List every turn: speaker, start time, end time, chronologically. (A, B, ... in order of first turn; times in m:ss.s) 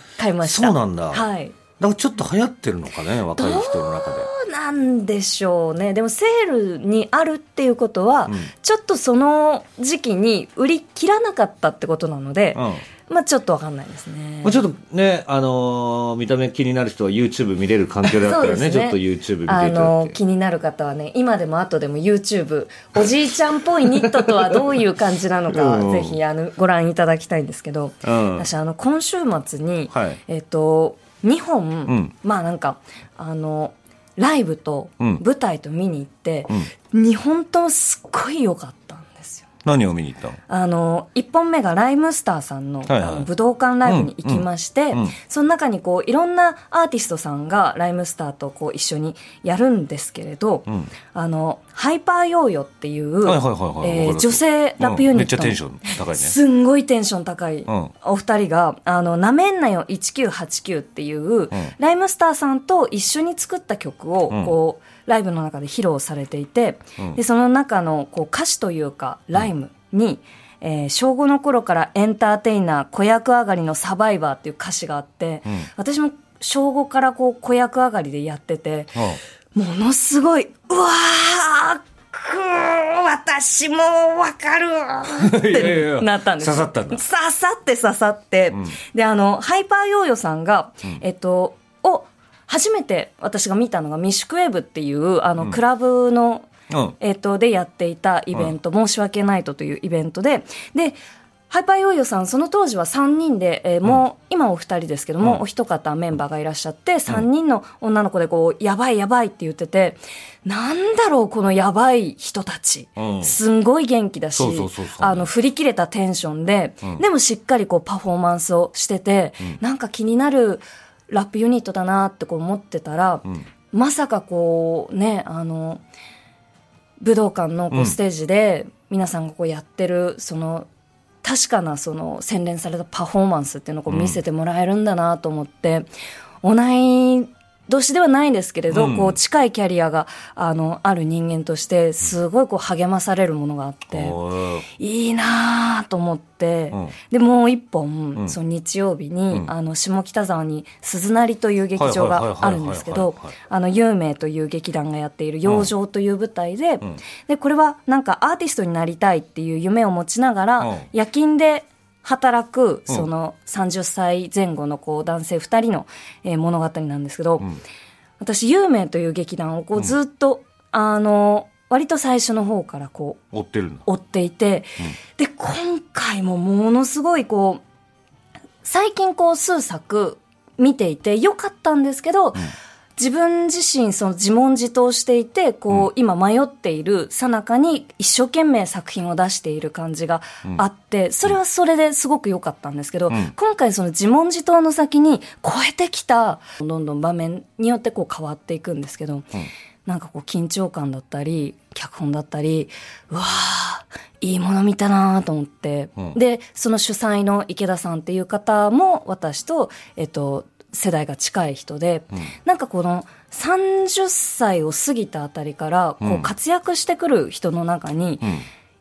0:00.2-0:01.6 A
0:00.4-0:01.3 B
0:01.8-0:04.3 B
0:03.4-0:14.6 A
0:12.6-0:12.8 B
0:14.4-0:20.2 B
0:18.0-0:39.4 A
0:23.9-0:24.8 B
0:25.5-0:26.2 B
0:28.0-0:28.5 B
0:29.9-0:30.2 B
0:31.9-0:32.1 B
0:39.6-0:40.4 B
0:40.5-1:36.5 A
0:42.9-0:43.3 B
0:43.8-0:45.2 B
0:50.7-0:50.9 B
0:53.2-0:56.4 B
1:04.3-1:04.6 B
1:19.0-1:19.2 B
1:25.2-1:27.0 B
1:36.7-1:37.0 B
1:37.0-1:41.0 A
1:41.5-2:05.8 A
1:53.0-1:53.4 B
1:54.4-1:55.3 B
2:07.0-2:10.7 A
2:07.7-2:08.0 B
2:11.2-2:15.9 A
2:13.9-2:14.2 B
2:16.4-2:24.2 A
2:18.7-2:19.2 B
2:23.9-2:24.7 B
2:24.8-2:47.6 A
2:31.8-2:33.3 B
2:35.4-2:35.7 B
2:40.6-2:40.9 B
2:48.2-2:53.2 A
2:53.3-2:53.8 B
2:53.8-2:57.6 A
2:58.6-3:19.3 A
3:19.8-3:38.4 A
3:36.0-3:36.3 B